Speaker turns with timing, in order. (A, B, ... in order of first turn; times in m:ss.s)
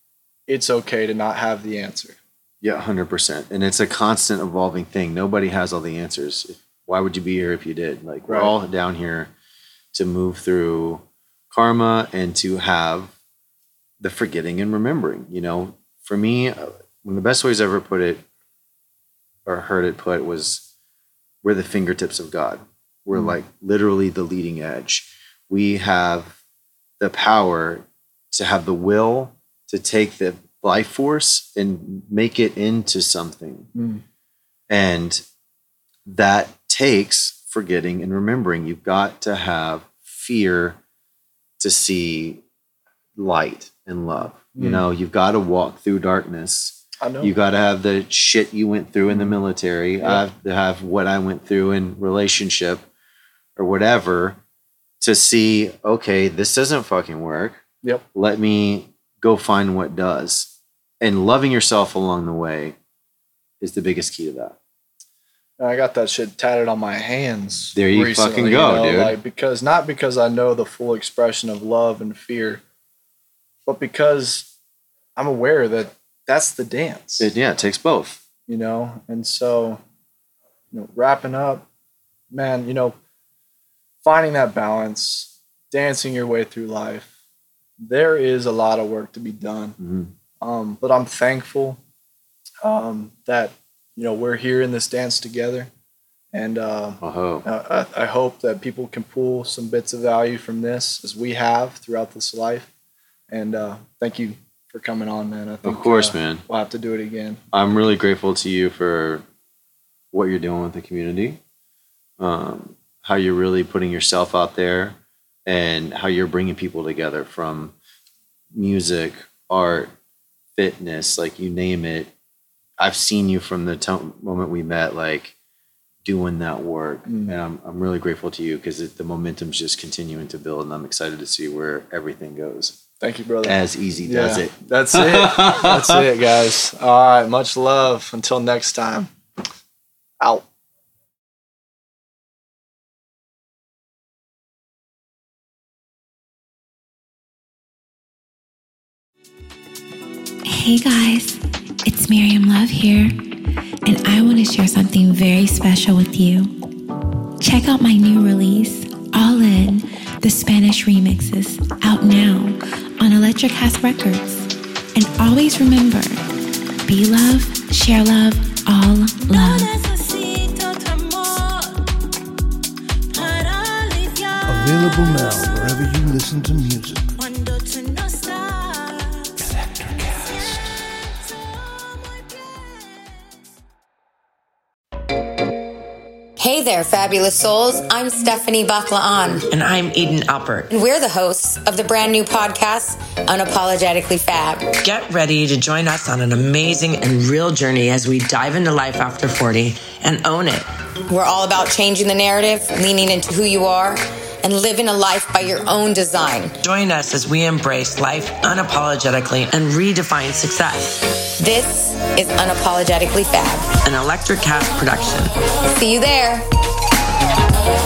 0:00.5-0:02.2 A
0:02.6-0:09.3 B
0:08.3-0:08.6 A
0:09.9-0:13.1 B
0:14.0-0:18.2 B
0:19.4-0:20.6 B
0:21.4-0:26.4 B
0:27.0-0:33.7 B
0:33.7-0:34.0 A
0:34.7-0:35.2 B
0:36.0-0:40.8 B
0:41.6-0:42.4 B
0:43.2-0:52.9 B
0:44.6-0:44.8 A
0:47.0-0:47.3 A
0:53.6-0:54.4 B
0:55.0-0:57.6 B
0:58.1-1:02.8 B
1:03.6-1:04.6 B
1:05.6-1:12.6 A
1:07.7-1:09.2 B
1:13.6-1:14.5 A
1:15.2-1:17.3 A
1:17.2-1:18.2 B
1:18.5-1:19.8 A
1:20.7-1:21.6 A
1:22.3-1:23.0 A
1:24.0-1:27.1 A
1:27.8-1:29.8 A
1:29.8-1:30.1 B
1:30.4-1:31.8 A
1:32.6-1:35.7 A
1:36.3-1:42.7 A
1:37.0-1:37.4 B
1:43.3-1:47.4 A
1:45.6-1:46.4 B
1:47.5-1:49.2 B
1:50.1-1:51.4 B
1:52.2-1:57.7 B
1:58.5-1:59.9 B
2:00.6-2:02.1 B
2:02.8-2:05.3 B
2:06.0-2:12.8 B
2:07.0-2:07.4 A
2:13.0-2:19.1 A
2:13.4-2:16.0 B
2:20.2-2:20.4 A
2:30.4-2:33.2 C
2:33.8-2:36.5 C
2:37.4-2:46.2 C
2:46.9-2:49.7 C
2:49.3-2:51.9 D
2:53.1-2:55.4 D
2:54.5-2:57.1 E
2:57.2-3:03.1 D
2:59.4-3:00.8 E
3:06.4-3:09.4 F
3:09.5-3:10.7 G
3:10.7-3:14.6 F
3:14.8-3:20.7 G
3:21.1-3:26.6 F
3:26.6-3:31.0 G
3:31.4-3:33.6 F
3:33.8-3:35.3 G
3:35.7-3:36.5 F